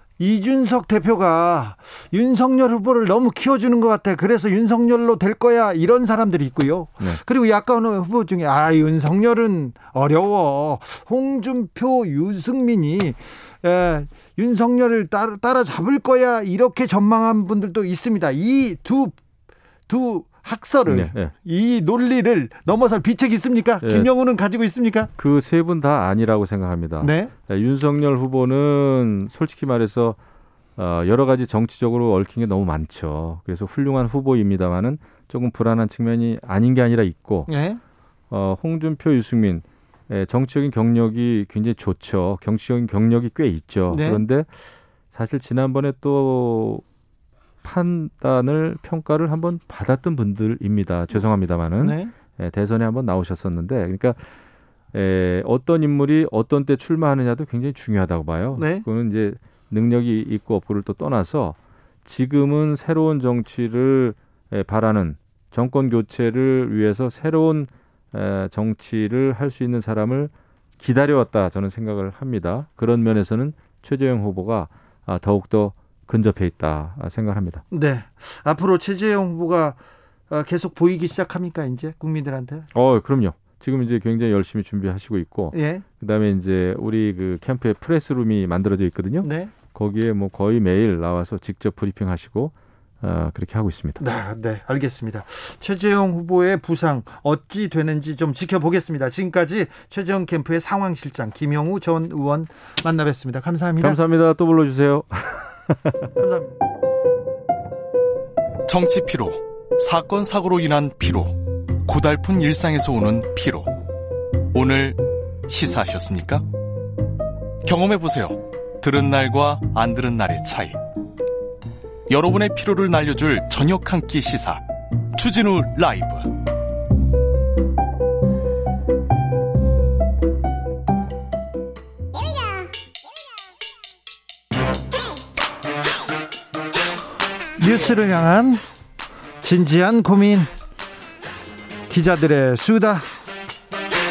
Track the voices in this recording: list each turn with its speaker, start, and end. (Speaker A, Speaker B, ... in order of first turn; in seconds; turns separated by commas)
Speaker A: 0.2-19.2, Speaker A: 19.9-25.1, Speaker B: 20.9-21.3, Speaker B: 23.8-24.1, Speaker B: 25.2-30.2, Speaker A: 27.0-27.3, Speaker B: 30.8-37.5, Speaker A: 37.5-37.8, Speaker B: 38.3-44.5, Speaker A: 43.9-44.2, Speaker B: 45.1-46.8, Speaker B: 47.6-54.2, Speaker A: 51.8-52.1, Speaker B: 54.9-77.6, Speaker A: 58.5-58.9, Speaker A: 77.7-79.8, Speaker A: 80.3-82.7, Speaker B: 82.7-94.0, Speaker A: 85.5-85.8, Speaker A: 89.2-89.5, Speaker A: 94.0-104.0, Speaker B: 103.8-106.1, Speaker A: 106.2-106.6, Speaker C: 108.7-113.7, Speaker C: 114.5-116.4, Speaker C: 117.7-120.8, Speaker C: 122.1-124.6, Speaker C: 125.2-126.3, Speaker A: 137.6-138.6, Speaker A: 139.4-140.5, Speaker A: 141.9-143.1